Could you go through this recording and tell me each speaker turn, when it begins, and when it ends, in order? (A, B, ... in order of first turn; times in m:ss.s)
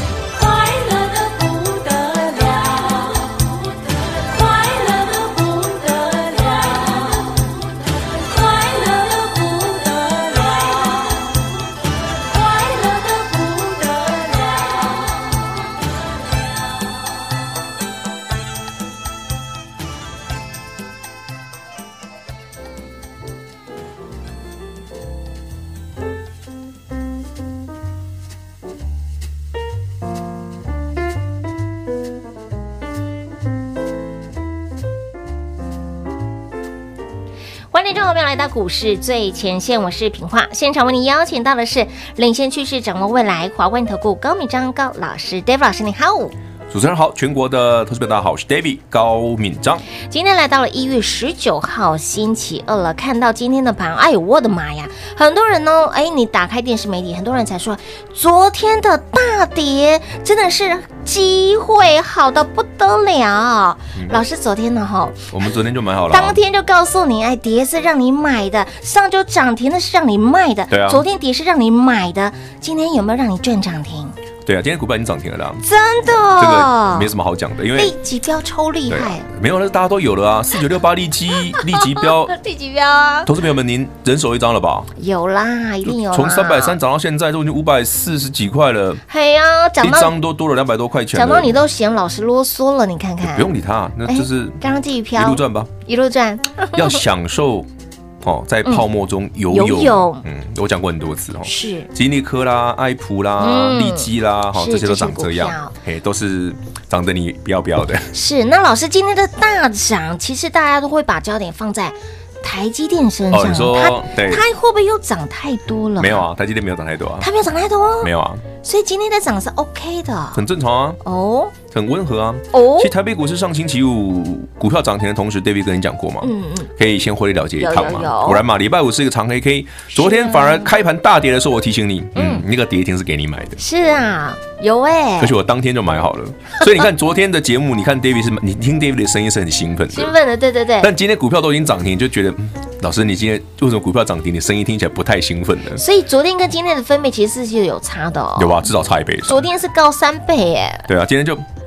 0:00.3-0:07.5 A
0:08.1-0:11.4 A
0:12.3-0:15.3 A
0:37.7-0:46.3 B
0:46.7-0:49.8 C
0:50.1-1:05.5 B
1:05.3-1:06.4 C
1:06.1-1:14.2 B
1:10.7-1:11.0 C
1:14.4-1:17.9 C
1:15.6-1:17.1 B
1:17.7-1:19.2 B
1:18.9-1:22.3 C
1:21.6-1:23.3 B
1:23.2-1:24.9 C
1:25.0-1:26.8 B
1:25.8-1:29.0 C
1:29.1-1:30.1 B
1:29.8-1:31.6 C
1:31.1-1:33.5 B
1:33.2-1:34.6 C
1:34.0-1:37.0 B
1:35.2-1:35.7 C
1:36.7-1:37.7 C
1:38.2-1:48.1 C
1:39.5-1:40.2 B
1:41.4-1:41.9 B
1:43.4-1:45.7 B
1:48.1-1:56.3 B
1:53.3-1:54.4 C
1:56.0-1:57.3 C
1:57.2-1:58.1 B
1:58.0-1:58.4 C
1:58.6-2:00.4 B
2:00.3-2:01.0 C
2:01.0-2:01.5 B
2:01.7-2:13.6 C
2:02.5-2:02.9 B
2:06.2-2:06.7 B
2:07.6-2:08.4 B
2:09.9-2:10.7 B
2:12.2-2:12.4 B
2:13.6-2:15.3 B
2:15.2-2:20.1 C
2:19.9-2:20.9 B
2:20.8-2:25.8 C
2:25.8-2:28.7 B
2:28.4-2:29.4 C
2:29.2-2:30.9 B
2:30.9-2:31.4 C